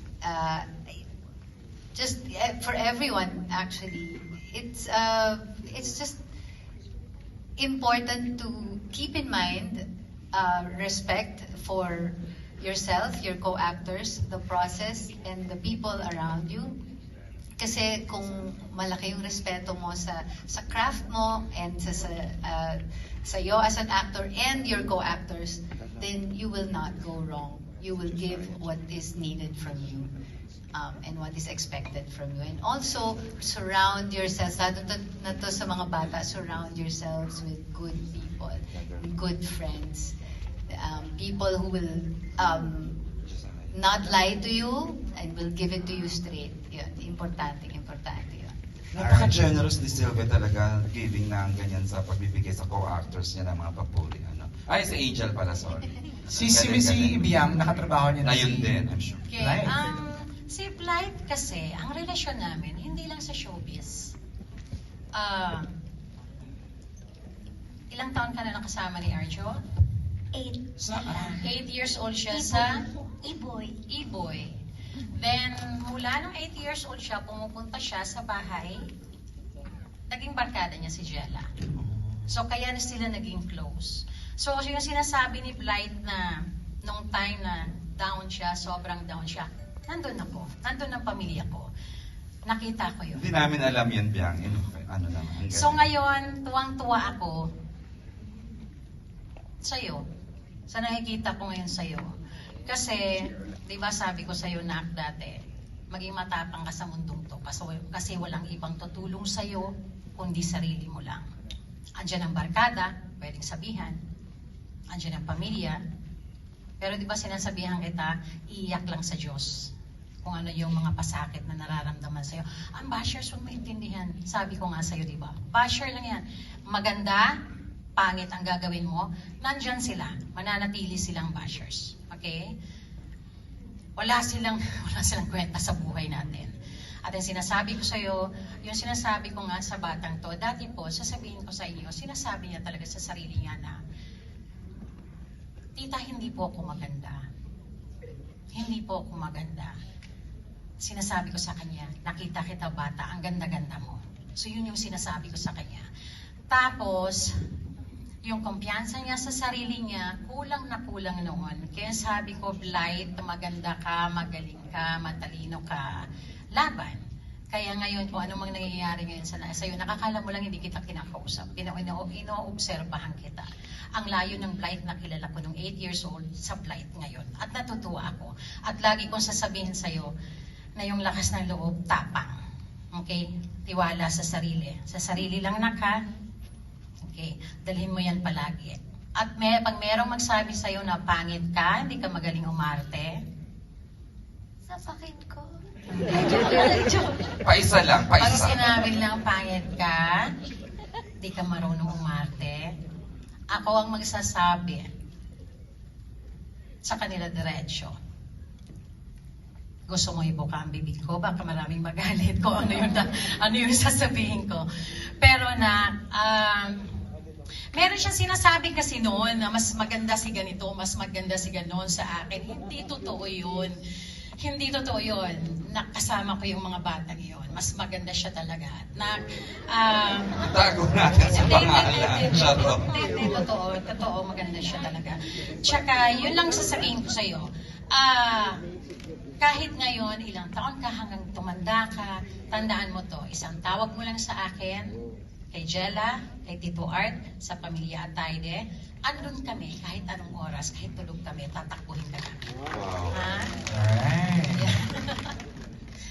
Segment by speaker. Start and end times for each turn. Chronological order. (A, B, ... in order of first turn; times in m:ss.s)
0:00.2-0:01.0 A
0:01.9-0:06.2 A
0:07.6-0:09.8 A
0:10.3-0:16.7 A
0:17.6-0:30.1 A
0:30.7-0:40.1 A
0:40.7-0:43.0 A
0:43.3-0:43.7 B
0:43.7-0:48.5 A
0:48.9-0:57.4 B
0:49.0-0:49.5 C
0:56.3-0:58.7 C
0:58.2-0:59.3 B
0:59.3-1:04.1 D
0:59.4-0:59.7 C
1:05.2-1:05.7 D
1:07.9-1:09.6 D
1:10.8-1:11.4 B
1:11.1-1:11.4 E
1:11.4-1:12.8 D
1:12.3-1:13.8 E
1:13.9-1:14.6 D
1:15.1-1:18.8 D
1:20.1-1:21.5 D
1:21.8-1:22.3 B
1:22.3-1:26.3 D
1:26.8-1:31.7 D
1:32.5-1:33.2 D
1:33.1-1:35.8 B
1:35.5-1:37.4 D
1:39.6-1:40.0 D
1:40.7-1:42.1 D
1:42.6-1:45.4 D
1:45.9-1:51.2 D
1:52.0-1:54.0 D
1:54.9-1:55.8 D
1:56.8-1:59.7 D
2:00.2-2:07.3 D
2:08.0-2:12.4 D
2:14.0-2:16.5 D
2:17.0-2:23.8 D
2:25.8-2:27.2 D
2:28.5-2:29.7 D
2:30.8-2:35.8 D
2:36.5-2:37.3 D
2:38.2-2:45.9 D
2:46.5-2:47.0 D
2:47.5-3:00.1 D
3:00.8-3:02.3 D
3:02.9-3:05.9 D
3:07.1-3:13.1 D
3:14.7-3:15.5 E
3:16.0-3:17.3 E
3:17.4-3:18.6 B
3:18.2-3:20.2 D
3:21.2-3:22.6 D
3:23.5-3:24.9 D
3:26.8-3:27.9 D
3:29.9-3:34.6 D
3:35.2-3:37.0 D
3:37.7-3:43.8 D
3:44.4-3:49.2 D
3:49.7-3:50.3 D
3:50.4-3:53.1 B
3:51.3-3:58.6 D
3:59.4-4:04.9 D
4:05.5-4:12.4 D
4:12.7-4:13.3 B
4:13.1-4:13.6 D
4:13.6-4:14.7 C
4:14.5-4:15.3 D